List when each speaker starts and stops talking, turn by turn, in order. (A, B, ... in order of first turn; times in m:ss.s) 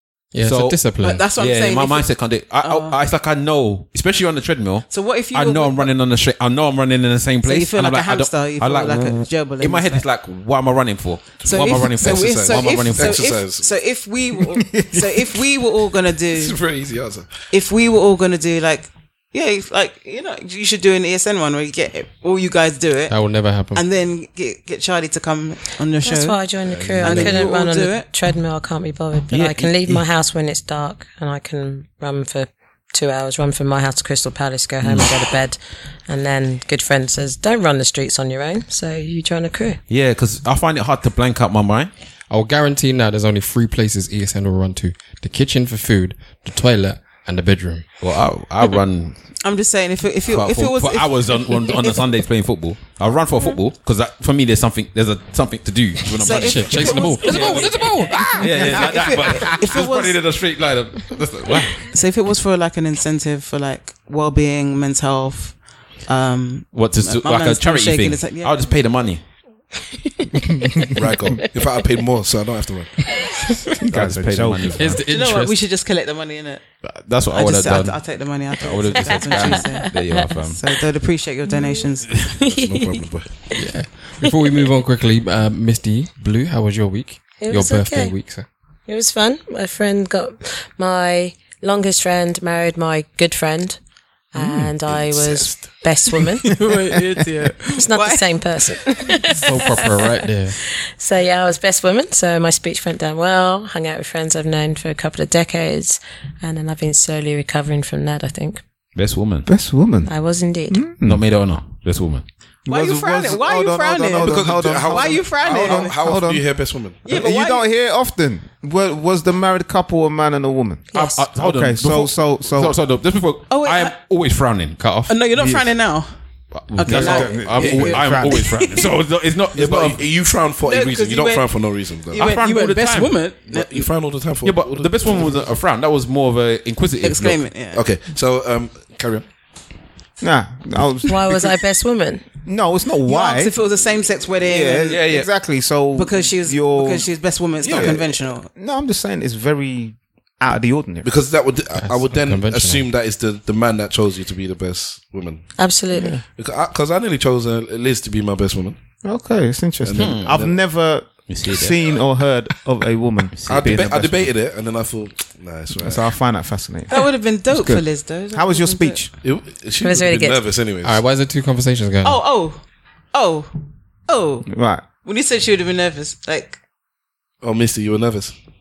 0:00.3-0:01.2 A
0:00.4-0:00.8 B
0:01.0-0:03.0 C
0:01.4-0:13.3 B
0:04.9-0:05.9 C
0:07.4-0:10.0 C
0:11.4-0:16.6 C
0:11.9-0:13.7 D
0:14.6-0:15.4 E
0:16.3-0:17.5 D
0:17.5-0:28.1 C
0:23.1-0:23.8 A
0:26.0-0:39.8 F
0:26.6-0:27.5 D
0:29.3-0:30.0 B
0:34.8-0:35.1 B
0:39.9-0:41.9 B
0:42.3-0:47.9 A
0:48.0-0:49.3 B
0:49.4-0:52.0 C
0:50.2-1:01.9 B
0:56.2-1:00.2 C
0:56.3-0:58.9 A
1:01.9-1:08.6 C
1:06.7-1:09.2 B
1:11.0-1:12.9 D
1:13.8-1:15.0 E
1:13.9-1:15.0 B
1:14.7-1:15.6 A
1:15.1-1:16.6 C
1:16.8-1:20.6 B
1:17.3-1:22.4 C
1:19.3-1:20.2 F
1:21.5-1:21.8 F
1:22.2-1:23.5 D
1:22.4-1:23.0 F
1:23.5-1:28.4 A
1:24.2-1:24.6 F
1:27.4-1:28.1 F
1:28.9-1:33.8 F
1:34.3-1:36.6 F
1:34.9-1:35.9 D
1:36.2-1:38.7 C
1:37.7-1:48.6 F
1:39.3-1:40.6 A
1:49.0-1:49.5 B
1:49.4-1:51.2 E
1:50.0-1:50.8 F
1:51.0-1:52.2 B
1:52.6-2:02.8 E
1:52.7-1:56.0 C
1:54.2-1:57.0 D
1:57.0-1:57.6 C
2:00.9-2:01.2 F
2:00.9-2:04.8 B
2:03.5-2:04.0 C
2:04.8-2:05.2 A
2:05.1-2:06.2 C
2:06.7-2:10.0 B
2:06.7-2:08.9 C
2:06.9-2:07.7 A
2:06.9-2:08.6 E
2:09.5-2:12.3 D
2:10.6-2:13.9 C
2:12.2-2:13.2 B
2:13.5-2:15.4 D
2:14.4-2:17.4 B
2:17.0-2:17.8 C
2:17.7-2:19.3 D
2:20.2-2:21.5 E
2:21.0-2:22.2 F
2:22.4-2:23.5 E
2:23.1-2:25.0 C
2:24.4-2:31.1 E
2:24.9-2:25.3 B
2:25.9-2:28.5 C
2:27.7-2:27.9 D
2:31.0-2:35.5 D
2:31.7-2:32.8 A
2:35.6-2:36.2 F
2:35.9-2:36.2 E
2:36.4-2:38.8 D
2:39.0-2:44.3 E
2:39.8-2:40.6 D
2:39.9-2:40.4 B
2:41.3-2:41.9 B
2:43.3-2:44.3 B
2:43.5-2:46.1 D
2:45.8-2:49.1 E
2:46.9-2:49.1 C
2:49.2-2:51.0 D
2:49.8-2:50.4 F
2:50.8-2:52.2 A
2:52.0-2:53.5 C
2:54.1-2:56.6 C
2:54.5-2:54.8 E
2:57.4-2:58.3 D